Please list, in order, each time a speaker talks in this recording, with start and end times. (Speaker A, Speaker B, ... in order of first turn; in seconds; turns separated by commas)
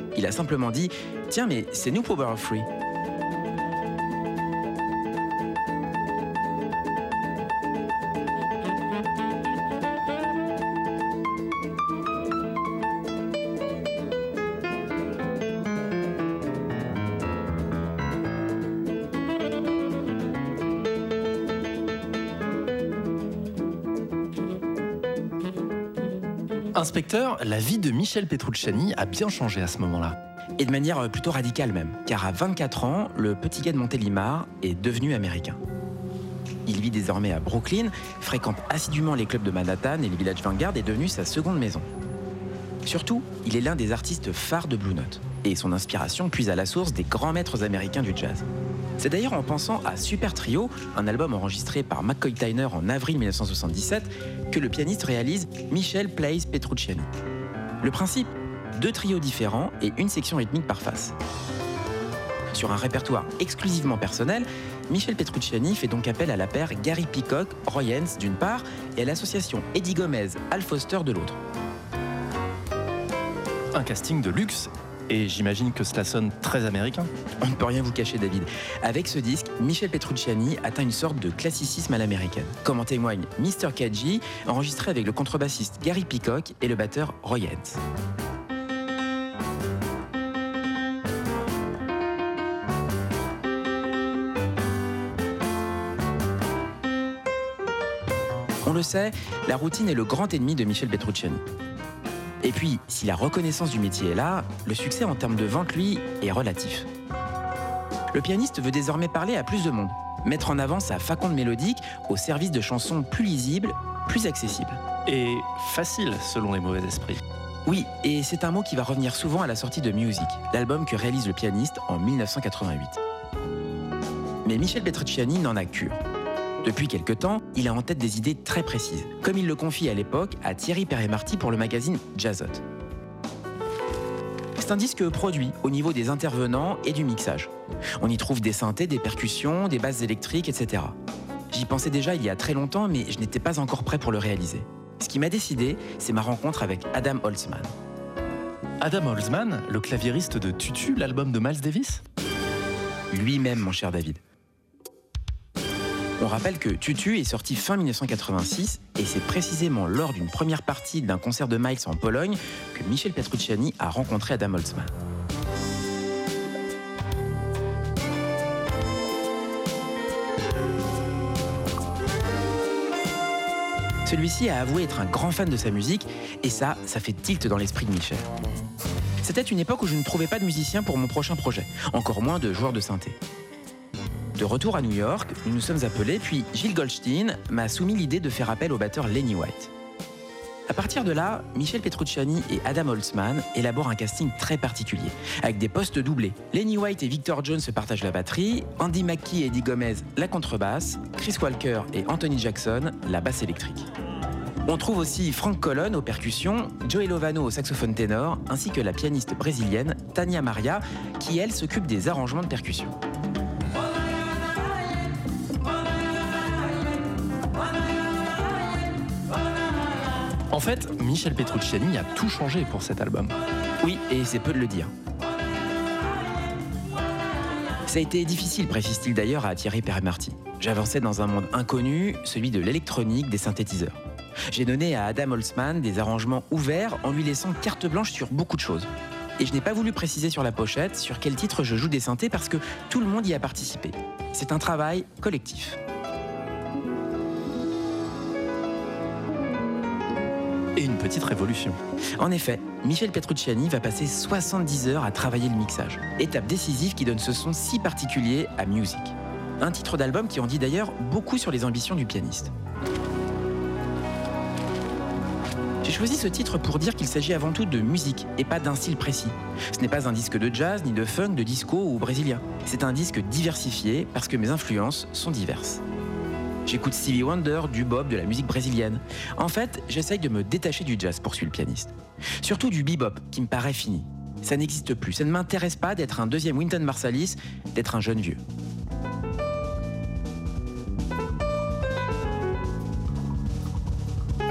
Speaker A: 0.1-2.7, Speaker B: 26.7-30.2, Speaker A: 30.6-35.6, Speaker A: 36.7-41.9, Speaker A: 42.9-48.5, Speaker A: 49.0-57.1, Speaker A: 57.8-61.1, Speaker A: 62.5-71.4, Speaker B: 73.7-77.1, Speaker A: 77.4-87.8, Speaker A: 98.6-101.4, Speaker A: 102.4-106.9, Speaker A: 108.1-114.8, Speaker B: 115.0-117.2, Speaker A: 117.7-123.0, Speaker A: 124.4-126.0, Speaker A: 126.6-132.6, Speaker A: 134.6-141.0, Speaker A: 141.5-147.7, Speaker B: 148.8-152.0, Speaker A: 153.1-154.2, Speaker A: 156.2-164.9, Speaker A: 174.1-178.3, Speaker A: 179.2-183.2, Speaker A: 184.4-189.7, Speaker A: 190.7-203.9, Speaker A: 204.7-212.9, Speaker B: 220.5-223.4, Speaker A: 223.8-224.9, Speaker A: 227.9-245.8, Speaker B: 250.8-251.8, Speaker A: 252.2-262.5, Speaker A: 265.8-275.8, Speaker A: 276.7-288.4